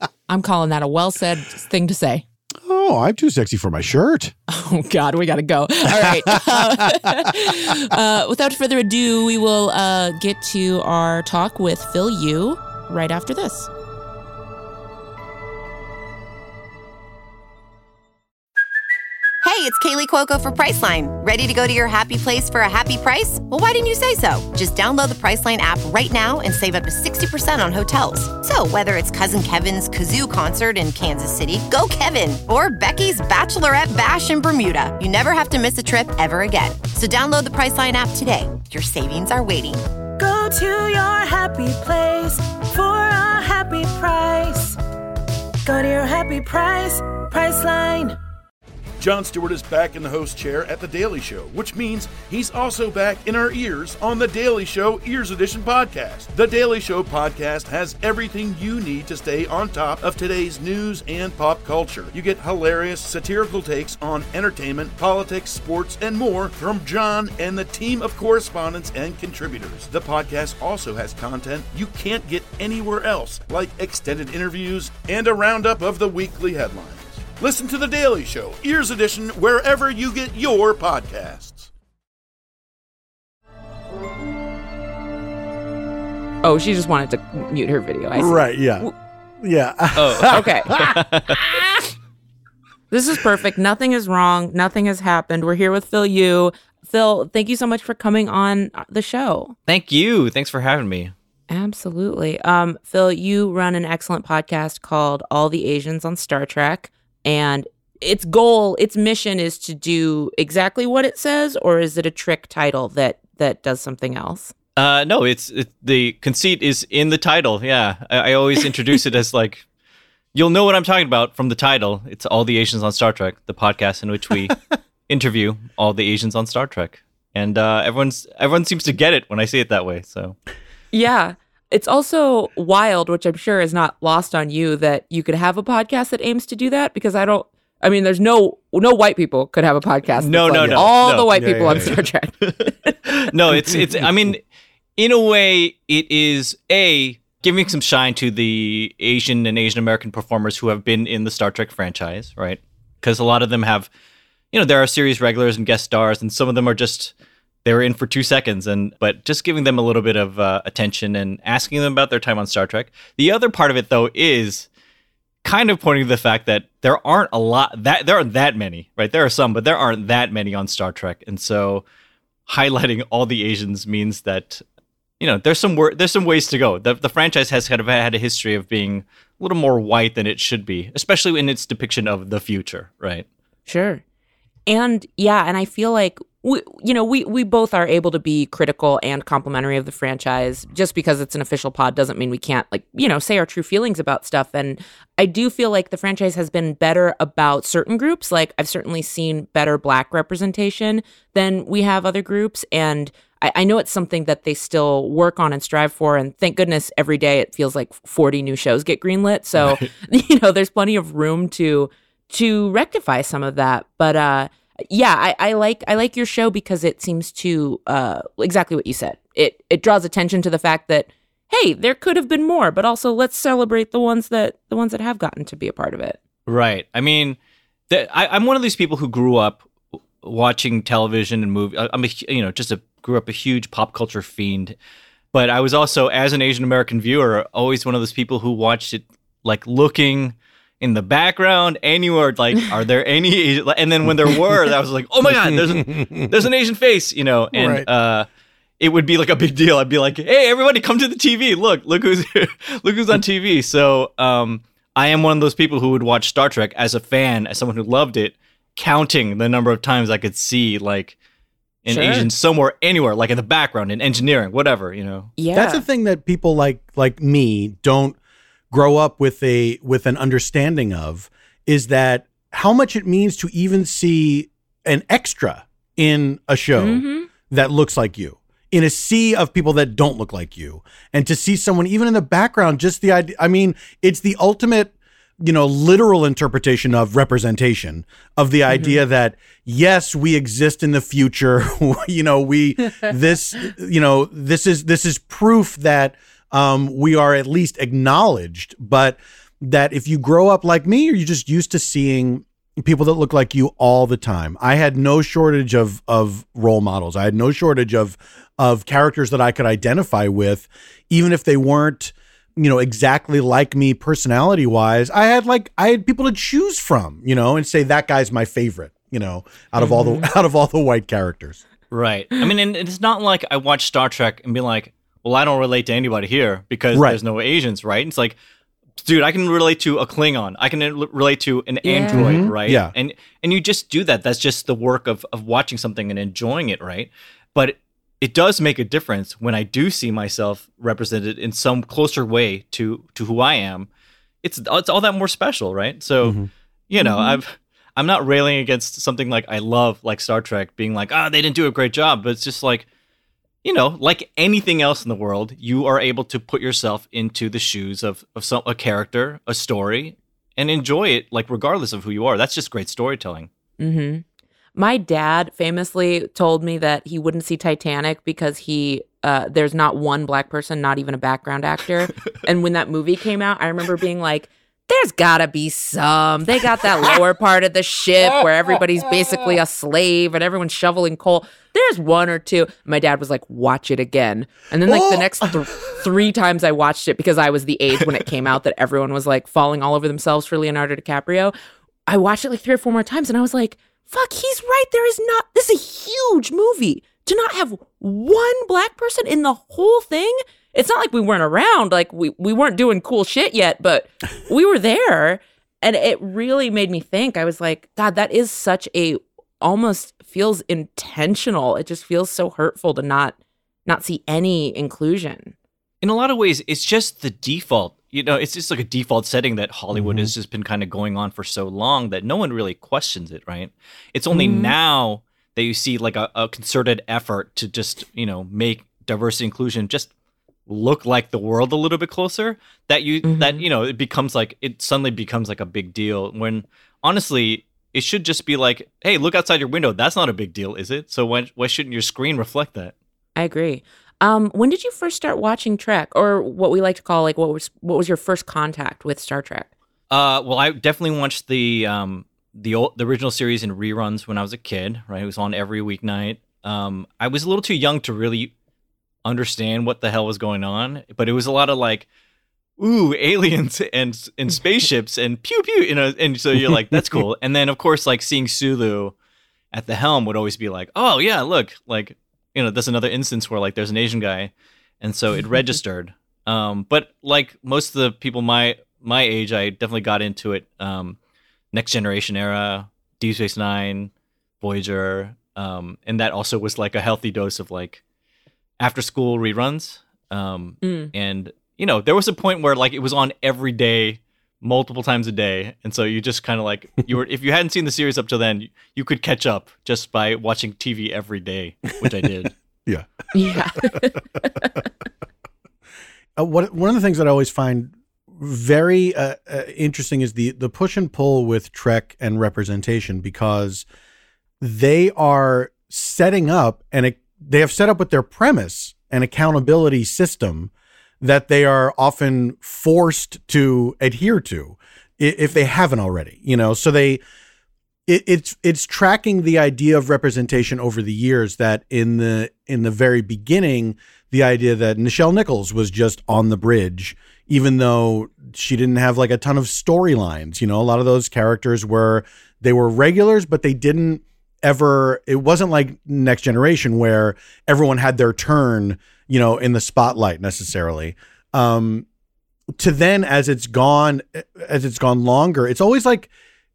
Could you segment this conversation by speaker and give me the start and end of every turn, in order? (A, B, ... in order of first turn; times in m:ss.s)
0:00.3-0:02.2 A
0:02.6-0:04.3 B
0:04.5-0:13.7 A
0:05.9-0:07.3 B
0:19.4-0:39.8 C
0:40.2-0:44.8 D
0:45.6-0:48.2 D
0:49.0-1:21.7 E
1:26.4-1:28.9 A
1:28.1-1:28.9 B
1:29.4-1:31.0 B
1:30.0-1:31.4 F
1:30.3-1:30.7 A
1:32.9-1:39.5 A
1:39.7-1:41.1 F
1:41.5-1:54.5 A
1:54.8-1:59.6 F
2:00.3-2:10.4 F
2:10.9-2:23.0 A
2:20.2-2:21.9 F
2:20.5-2:21.9 B
2:22.4-2:24.4 F
2:25.0-2:33.9 F
2:34.5-2:37.1 F
2:37.6-2:44.7 F
2:45.4-2:51.8 F
2:52.5-2:54.6 F
2:55.2-3:03.2 F
3:03.7-3:04.0 A
3:04.7-3:46.2 A
3:46.5-3:47.4 F
3:47.9-3:49.7 F
3:50.2-3:54.7 F
3:55.3-4:08.3 F
4:05.8-4:06.2 B
4:07.5-4:07.9 B
4:08.8-4:21.2 F
4:21.8-4:25.3 F
4:21.9-4:22.3 A
4:25.4-4:25.8 A
4:25.5-4:28.2 B
4:28.7-5:21.6 B
4:36.8-4:37.3 A
4:48.7-4:49.0 A
5:19.8-5:20.3 A
5:21.9-5:28.4 F
5:26.9-5:27.2 B
5:29.0-5:43.9 F
5:31.8-5:32.4 A
5:32.1-5:32.9 B
5:44.4-5:46.4 F
5:46.2-5:46.5 B
5:46.9-5:52.8 F
5:47.0-5:47.4 A
5:53.6-6:03.5 F
6:03.8-6:04.2 A
6:04.8-6:31.5 A
6:24.8-6:25.4 B
6:32.1-6:55.5 A
6:56.0-7:10.1 F
6:59.9-7:00.3 B
7:04.3-7:04.7 A
7:10.7-7:22.9 F
7:13.2-7:13.6 A
7:23.4-7:29.7 A
7:30.1-7:38.5 F
7:39.2-7:42.0 F
7:42.8-7:49.1 F
7:46.9-7:47.2 B
7:49.7-8:01.2 F
8:01.7-8:08.0 F
8:08.8-8:22.5 F
8:10.8-8:11.1 A
8:22.8-8:23.6 B
8:23.3-8:24.7 A
8:26.4-8:33.8 B
8:34.6-8:47.2 B
8:48.1-9:12.0 B
9:12.8-9:16.3 B